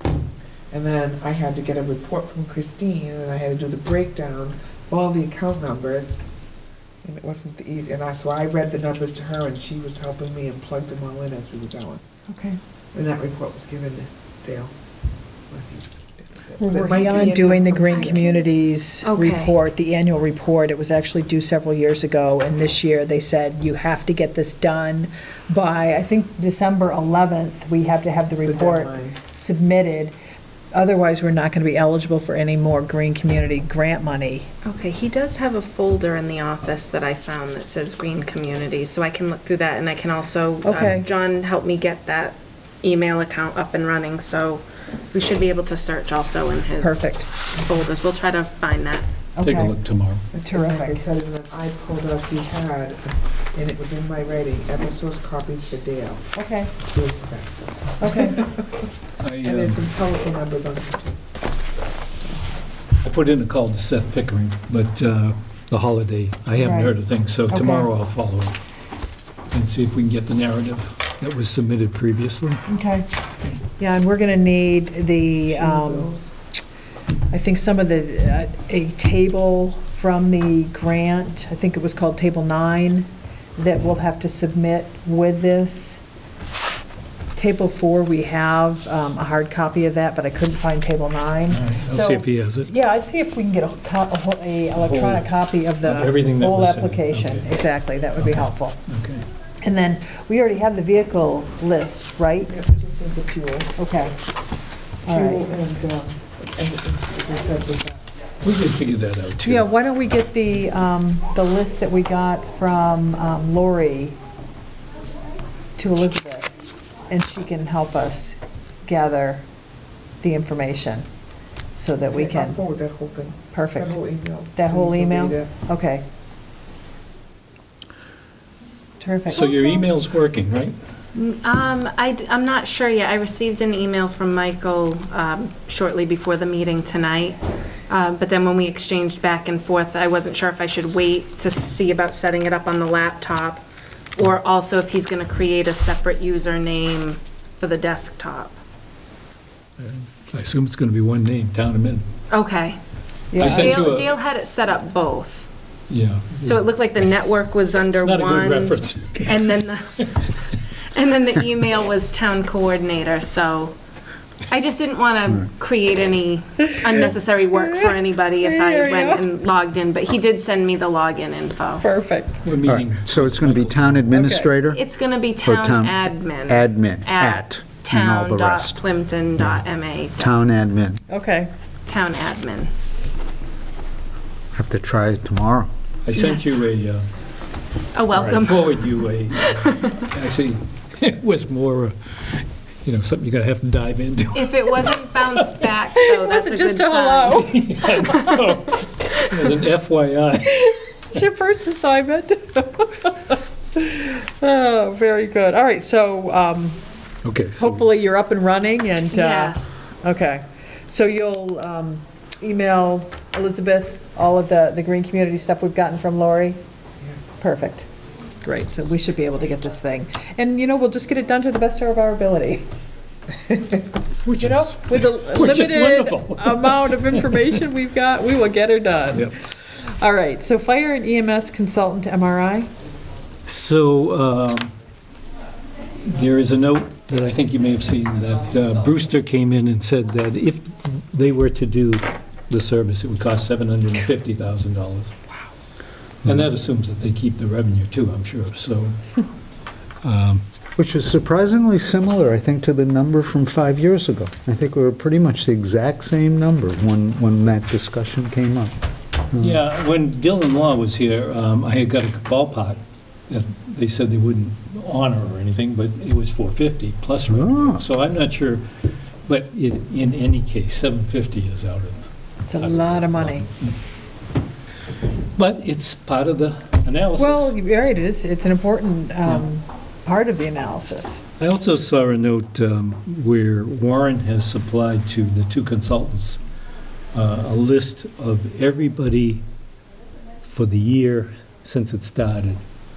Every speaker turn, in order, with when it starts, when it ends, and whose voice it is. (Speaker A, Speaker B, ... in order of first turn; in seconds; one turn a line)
Speaker A: 0.7-6.2
Speaker A: 7.0-12.0
Speaker B: 12.3-12.6
Speaker A: 12.9-14.7
Speaker A: 15.5-18.3
Speaker B: 16.6-30.1
Speaker C: 17.9-18.4
Speaker C: 19.0-19.5
Speaker A: 28.4-29.2
Speaker B: 30.7-34.5
Speaker C: 34.6-49.1
Speaker B: 40.6-41.0
Speaker B: 46.8-47.3
Speaker B: 49.4-49.8
Speaker D: 49.4-50.2
Speaker A: 50.3-58.8
Speaker B: 50.4-51.0
Speaker B: 56.4-56.7
Speaker B: 58.0-58.4
Speaker D: 59.2-59.8
Speaker A: 59.4-61.2
Speaker D: 63.0-68.6
Speaker B: 66.5-67.9
Speaker D: 69.5-72.6
Speaker B: 72.7-76.1
Speaker A: 75.4-76.2
Speaker B: 77.3-86.0
Speaker B: 87.3-98.8
Speaker D: 91.5-92.7
Speaker D: 94.8-95.3
Speaker D: 95.8-97.5
Speaker D: 98.2-99.2
Speaker B: 99.6-102.5
Speaker A: 102.5-103.8
Speaker B: 103.8-104.1
Speaker B: 105.0-105.5
Speaker A: 105.1-108.3
Speaker D: 108.4-109.7
Speaker B: 109.4-114.2
Speaker B: 115.8-116.5
Speaker B: 117.1-119.4
Speaker B: 120.2-121.0
Speaker B: 121.8-122.6
Speaker A: 122.1-125.5
Speaker B: 123.5-124.0
Speaker B: 124.5-126.0
Speaker B: 129.0-129.7
Speaker D: 129.3-130.8
Speaker C: 131.1-143.6
Speaker C: 144.2-148.6
Speaker D: 149.8-152.1
Speaker C: 152.3-152.8
Speaker B: 153.3-153.9
Speaker D: 153.4-154.2
Speaker C: 153.4-155.5
Speaker D: 155.9-156.6
Speaker C: 156.4-160.3
Speaker D: 157.9-160.3
Speaker C: 160.9-163.7
Speaker C: 164.5-171.8
Speaker B: 166.8-169.2
Speaker B: 171.8-172.5
Speaker D: 172.4-174.1
Speaker E: 172.6-174.8
Speaker B: 174.1-174.5
Speaker C: 174.7-180.3
Speaker E: 175.4-178.8
Speaker E: 180.2-181.0
Speaker B: 181.1-181.5
Speaker C: 181.9-182.7
Speaker E: 184.5-185.7
Speaker D: 186.0-187.0
Speaker C: 186.1-186.5
Speaker C: 187.9-188.9
Speaker D: 188.1-194.9
Speaker C: 189.6-189.9
Speaker C: 194.3-197.4
Speaker B: 195.9-198.3
Speaker D: 197.3-200.6
Speaker B: 200.5-206.8
Speaker D: 207.2-207.8
Speaker B: 207.6-216.6
Speaker C: 209.1-209.9
Speaker B: 217.4-217.9
Speaker B: 218.4-222.7
Speaker D: 224.2-227.7
Speaker B: 224.4-232.7
Speaker D: 233.5-234.7
Speaker D: 236.1-245.1
Speaker D: 246.2-249.0
Speaker D: 250.0-250.4
Speaker E: 250.8-258.7
Speaker D: 259.4-268.6
Speaker E: 267.3-267.8
Speaker D: 269.2-273.8
Speaker B: 272.5-273.5
Speaker D: 275.4-277.5
Speaker B: 277.1-281.2
Speaker D: 281.4-286.4
Speaker D: 287.1-289.4
Speaker D: 290.4-292.6